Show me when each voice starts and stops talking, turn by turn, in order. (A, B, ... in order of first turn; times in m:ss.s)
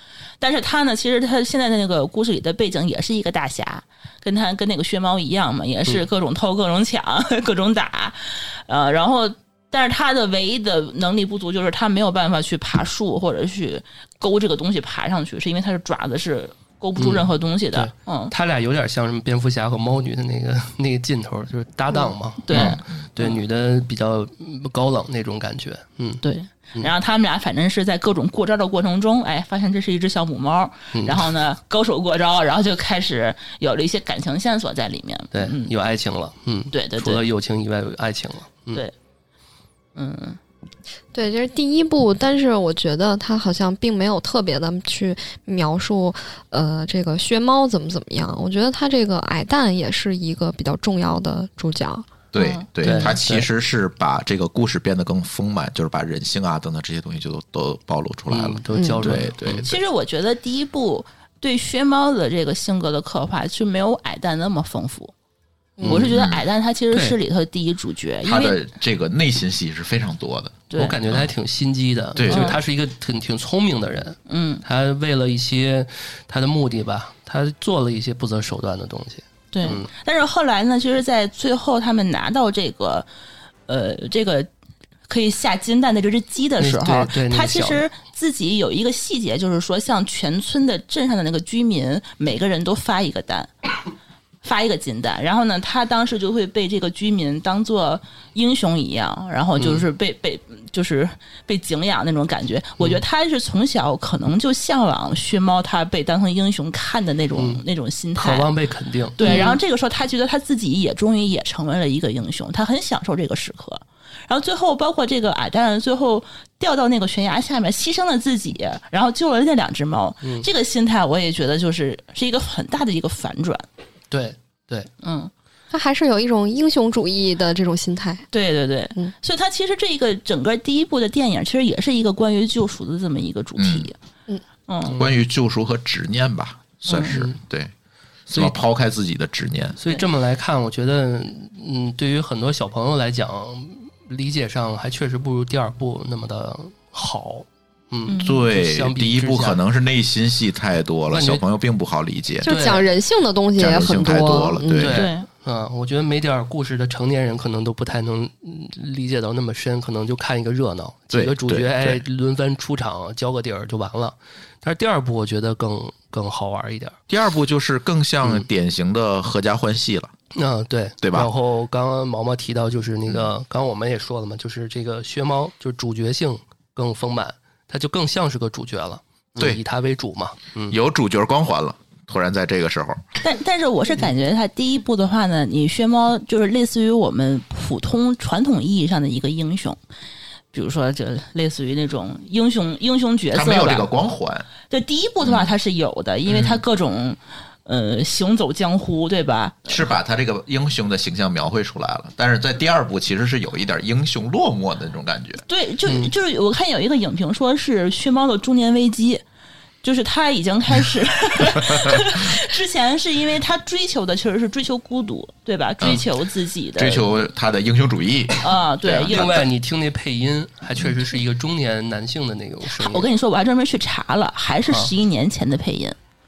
0:00.4-0:18.3 A
0:17.0-0:26.2 B
0:22.4-0:23.4 A
0:22.5-0:23.0 C
0:26.2-0:35.7 A
0:30.9-0:31.2 B
0:35.3-0:38.8 B
0:36.7-0:37.2 A
0:40.0-0:40.4 A
0:41.1-0:52.1 D
0:52.3-0:59.7 C
0:52.3-0:53.1 A
0:52.8-0:53.5 B
0:58.3-0:59.7 B
0:58.7-0:59.0 D
0:59.6-1:05.1 A
1:05.8-1:06.0 D
1:05.8-1:06.1 B
1:05.8-1:08.6 A
1:05.9-1:06.4 C
1:08.2-1:11.2 C
1:10.7-1:11.0 A
1:10.7-1:19.9 B
1:12.2-1:12.6 C
1:12.3-1:12.6 A
1:14.3-1:14.6 A
1:19.5-1:23.1 A
1:23.7-1:24.5 A
1:25.1-1:33.7 A
1:26.6-1:27.8 B
1:34.4-1:48.5 A
1:39.6-1:39.8 B
1:47.3-1:47.6 B
1:48.2-1:49.5 B
1:49.2-2:03.6 A
1:49.2-1:49.6 D
2:04.1-2:04.9 B
2:05.0-2:05.3 A
2:05.7-2:08.2 D
2:08.3-2:14.0 A
2:13.6-2:13.9 C
2:14.7-2:15.0 A
2:14.9-2:17.7 C
2:16.9-2:17.2 A
2:17.1-2:17.4 B
2:18.3-2:18.6 B
2:18.3-2:19.8 C
2:19.8-2:29.6 B
2:28.1-2:28.4 A
2:28.2-2:32.5 C
2:31.1-2:31.4 B
2:32.4-2:35.0 D
2:32.4-2:32.8 B
2:33.6-2:35.0 C
2:34.8-2:47.0 B
2:34.9-2:35.3 A
2:41.1-2:42.0 C
2:47.1-2:50.1 C
2:48.2-2:48.5 B
2:50.3-3:00.8 B
2:51.0-2:51.3 C
3:00.7-3:03.0 C
3:03.2-3:09.8 A
3:10.5-3:13.9 A
3:13.3-3:14.5 C
3:14.7-3:19.9 A
3:15.2-3:15.5 C
3:16.3-3:16.6 C
3:19.7-3:25.4 C
3:25.5-3:29.2 A
3:25.9-3:26.1 B
3:29.8-3:37.2 A
3:31.7-3:32.0 C
3:36.8-3:39.4 C
3:38.4-3:39.4 A
3:39.1-3:43.1 B
3:42.8-3:46.0 A